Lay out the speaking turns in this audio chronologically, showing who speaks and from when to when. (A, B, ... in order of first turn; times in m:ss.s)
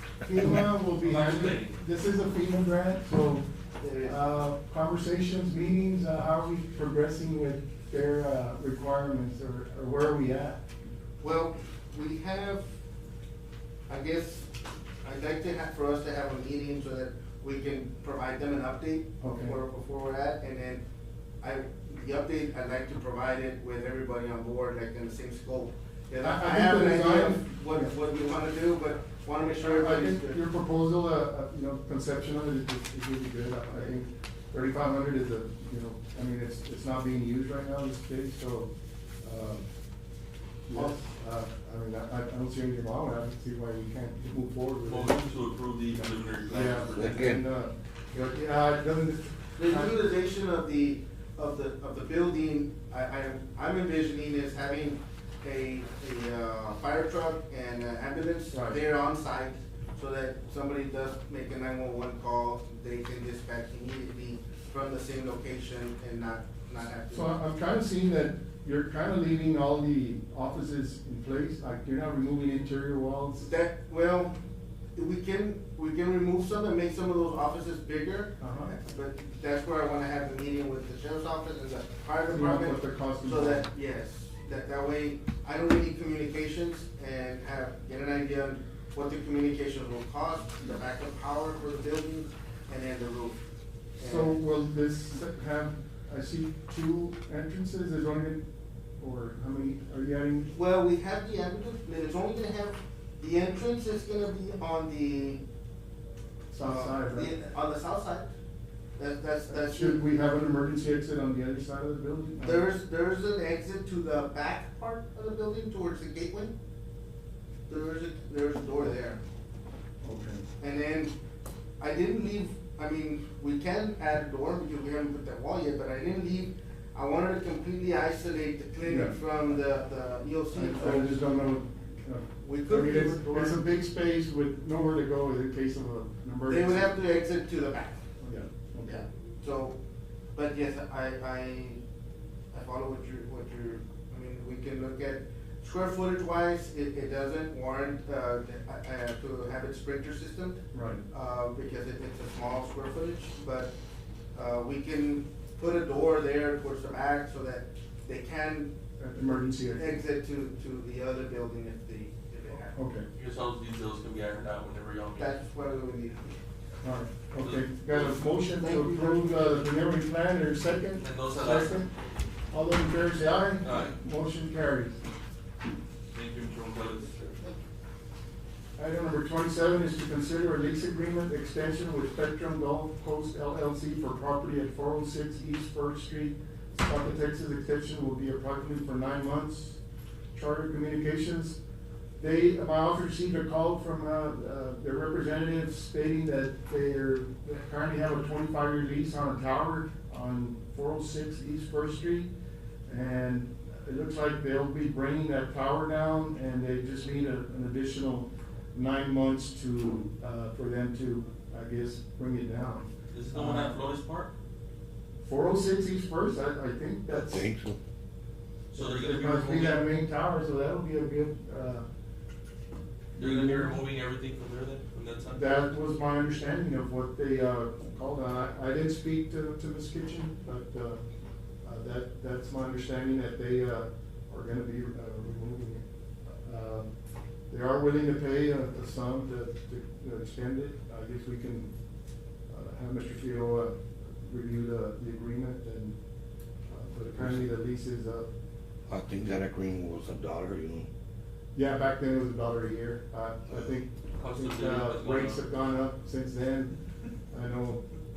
0:00.2-0:03.4 A
0:01.0-0:01.8 B
0:03.8-0:04.2 C
0:04.0-0:10.6 A
0:11.2-0:12.6 C
0:13.9-0:14.5 C
0:15.0-0:20.8 C
0:19.2-0:19.5 A
0:21.4-0:30.4 C
0:26.2-0:27.9 A
0:29.5-0:38.7 A
0:39.2-0:39.7 A
0:40.7-0:45.2 A
0:44.8-0:47.3 B
0:46.5-0:50.0 A
0:46.9-0:47.4 D
0:49.6-1:07.3 C
0:58.5-0:58.8 A
1:07.1-1:13.5 A
1:13.4-1:14.3 C
1:14.9-1:33.4 C
1:18.4-1:18.7 A
1:22.3-1:23.6 A
1:34.0-1:34.4 C
1:34.0-1:38.4 A
1:39.0-1:40.5 A
1:40.5-1:45.4 C
1:46.5-1:47.3 A
1:46.6-1:48.3 C
1:49.0-1:50.0 C
1:49.5-1:52.6 A
1:52.4-1:56.5 C
1:57.7-1:59.2 C
2:00.0-2:00.4 A
2:00.6-2:01.1 C
2:01.8-2:11.2 C
2:08.8-2:09.2 A
2:10.5-2:17.0 A
2:12.4-2:13.6 C
2:16.5-2:18.0 C
2:18.2-2:19.0 A
2:18.8-2:19.8 C
2:20.3-2:21.8 C
2:22.5-2:33.7 C
2:30.7-2:31.0 A
2:34.3-2:38.7 C
2:39.0-2:40.0 A
2:39.8-2:42.8 C
2:42.7-2:43.1 A
2:43.1-2:45.3 B
2:45.2-2:46.3 C
2:46.8-2:51.9 A
2:47.4-2:48.2 B
2:48.5-2:49.7 C
2:51.0-2:51.8 B
2:52.5-2:55.0 A
2:53.6-2:53.9 B
2:56.1-2:57.5 B
2:58.8-3:09.8 A
3:10.3-3:11.6 A
3:12.2-3:22.3 A
3:22.9-3:33.7 A
3:33.1-3:34.3 B
3:35.2-3:37.5 A
3:37.1-3:37.8 D
3:38.7-3:41.8 A
3:38.7-3:39.8 B
3:43.1-3:43.8 A
3:43.2-3:45.6 B
3:45.3-3:51.0 A
3:51.6-3:56.9 A
3:57.5-4:01.7 A
4:02.5-4:06.0 A
4:06.7-4:08.3 A
4:07.2-4:07.4 D
4:08.9-4:10.9 D
4:11.5-4:16.7 A
4:14.2-4:15.4 B
4:17.3-4:17.8 A